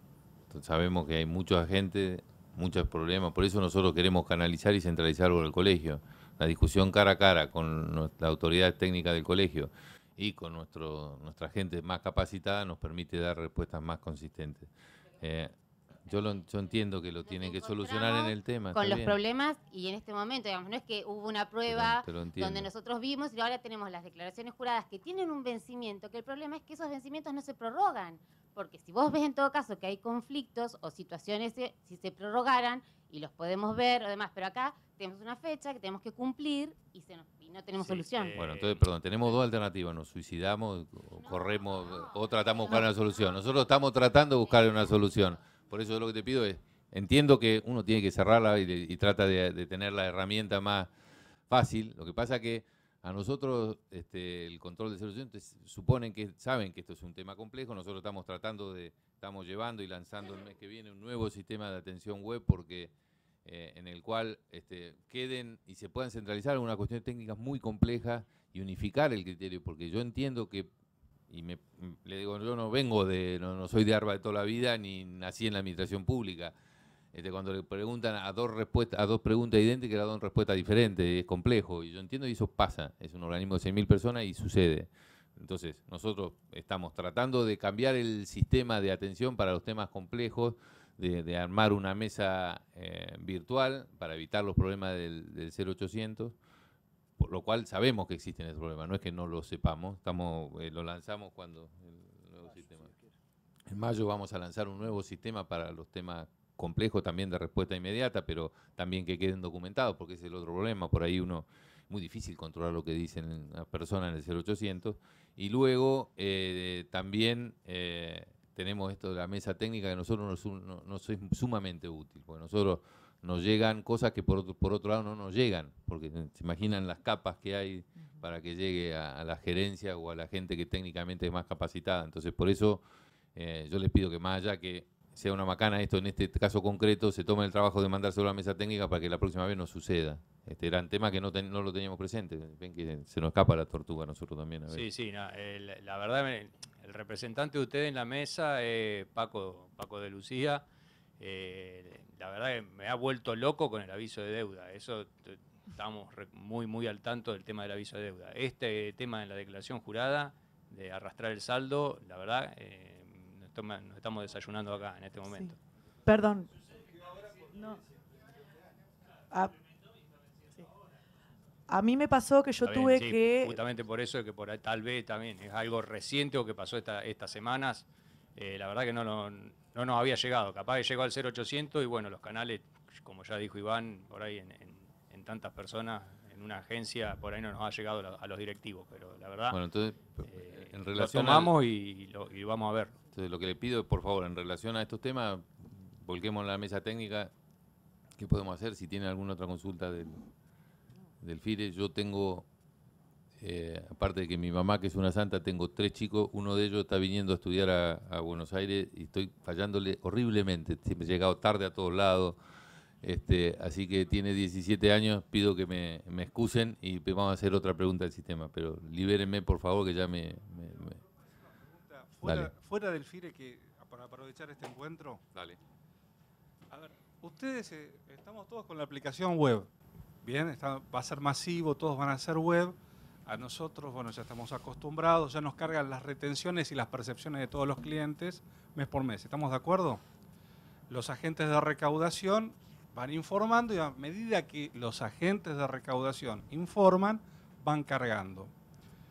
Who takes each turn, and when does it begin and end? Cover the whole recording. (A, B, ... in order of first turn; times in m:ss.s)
0:00.5-0:15.5 A
0:16.0-0:19.2 A
0:17.2-0:38.4 B
0:21.6-0:22.7 A
0:37.8-0:38.8 C
0:38.3-0:50.9 A
0:41.2-0:42.9 B
0:51.5-1:02.9 A
1:03.4-1:10.7 A
1:11.3-1:16.5 A
1:17.1-1:36.4 A
1:37.2-1:42.9 A
1:43.7-2:24.9 A
2:24.7-2:30.6 C
2:31.2-2:45.6 C
2:45.3-2:45.5 D
2:46.0-2:46.5 D
2:47.5-2:47.8 D
2:51.7-2:53.6 D
2:52.6-3:09.6 C
3:09.5-3:11.5 A
3:10.2-3:13.0 C
3:13.1-3:17.3 A
3:18.2-3:20.2 A
3:21.2-3:22.4 A
3:23.4-3:32.4 A
3:33.0-3:41.0 A
3:41.7-3:45.2 E
3:42.2-3:42.5 A
3:45.3-3:45.6 A
3:46.7-3:49.7 E
3:50.2-4:00.0 E
4:00.9-4:08.5 E